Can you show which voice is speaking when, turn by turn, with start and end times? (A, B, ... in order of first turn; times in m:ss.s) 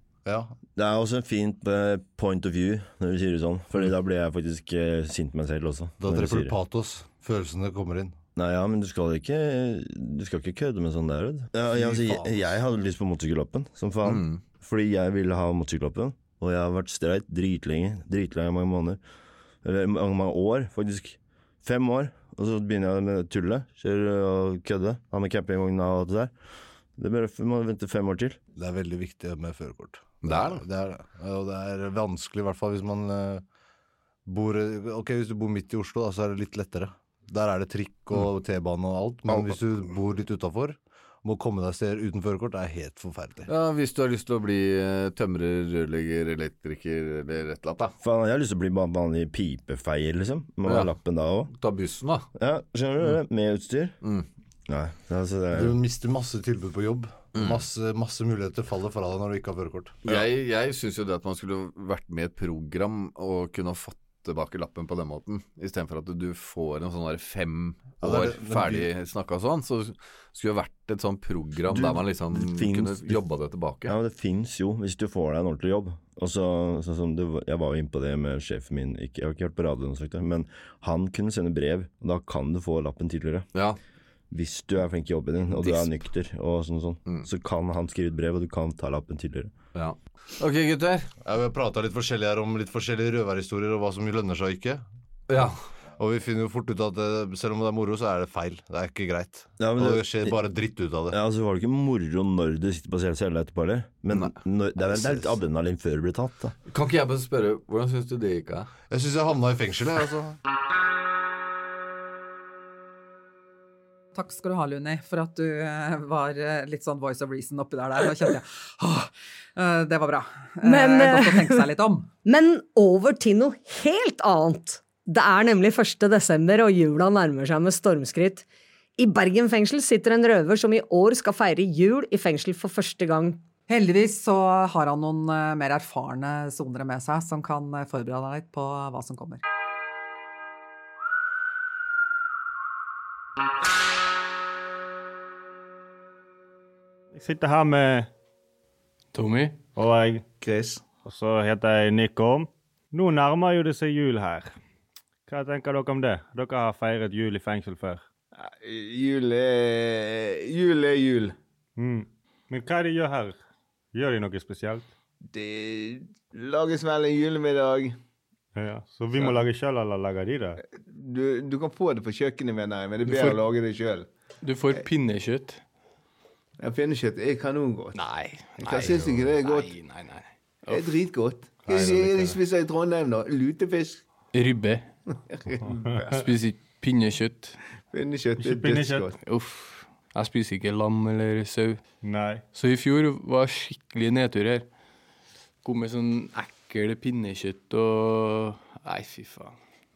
0:00.2-0:00.5 A
0:00.7-0:06.6 B
0:06.0-0:08.1 A
0:08.4-0:19.0 B
0:11.7-0:12.5 A
0:14.0-0:14.4 C
0:19.6-0:26.3 B
0:27.0-0:28.4 B
0:28.6-0:33.4 A
0:30.2-0:30.6 C
0:34.2-0:43.5 A
0:39.3-0:39.5 B
0:43.5-0:47.9 C
0:48.0-0:51.5 B
0:50.6-0:50.9 C
0:51.5-0:52.3 C
0:52.3-0:54.0 B
0:54.7-0:55.8 B
0:55.5-1:00.2 A
0:57.3-0:57.6 C
1:00.0-1:13.9 C
1:08.0-1:08.9 A
1:11.7-1:13.2 B
1:13.8-1:23.5 B
1:24.3-1:29.5 B
1:25.6-1:25.9 C
1:29.7-1:31.1 C
1:31.2-1:34.8 A
1:35.3-1:35.7 C
1:36.0-1:41.1 A
1:39.6-1:40.4 B
1:41.1-1:46.6 B
1:44.1-1:45.2 C
1:46.7-1:48.7 C
1:48.9-1:50.4 A
1:54.1-2:02.1 D
2:00.6-2:01.7 E
2:02.2-2:08.4 E
2:09.0-2:13.4 E
2:13.7-2:19.4 D
2:27.1-2:28.1 F
2:29.1-2:29.6 G
2:29.8-2:30.2 F
2:30.4-2:30.8 H
2:31.0-2:34.6 F
2:35.3-2:38.0 F
2:38.3-2:41.3 H
2:41.8-2:43.4 F
2:43.9-2:44.9 F
2:45.3-2:47.9 H
2:48.6-2:50.6 F
2:49.1-2:49.4 H
2:50.7-2:54.1 H
2:53.0-2:53.4 G
2:54.4-2:55.6 G
2:56.6-2:58.0 H
2:58.0-3:00.9 G
2:58.6-2:59.7 H
3:00.7-3:04.0 H
3:01.7-3:02.3 F
3:01.7-3:02.3 G
3:04.3-3:04.9 G
3:05.3-3:06.2 H
3:06.1-3:07.6 G
3:07.9-3:09.1 H
3:08.4-3:09.1 F
3:09.2-3:11.8 G
3:12.0-3:12.4 F
3:12.5-3:14.6 G
3:15.6-3:19.6 G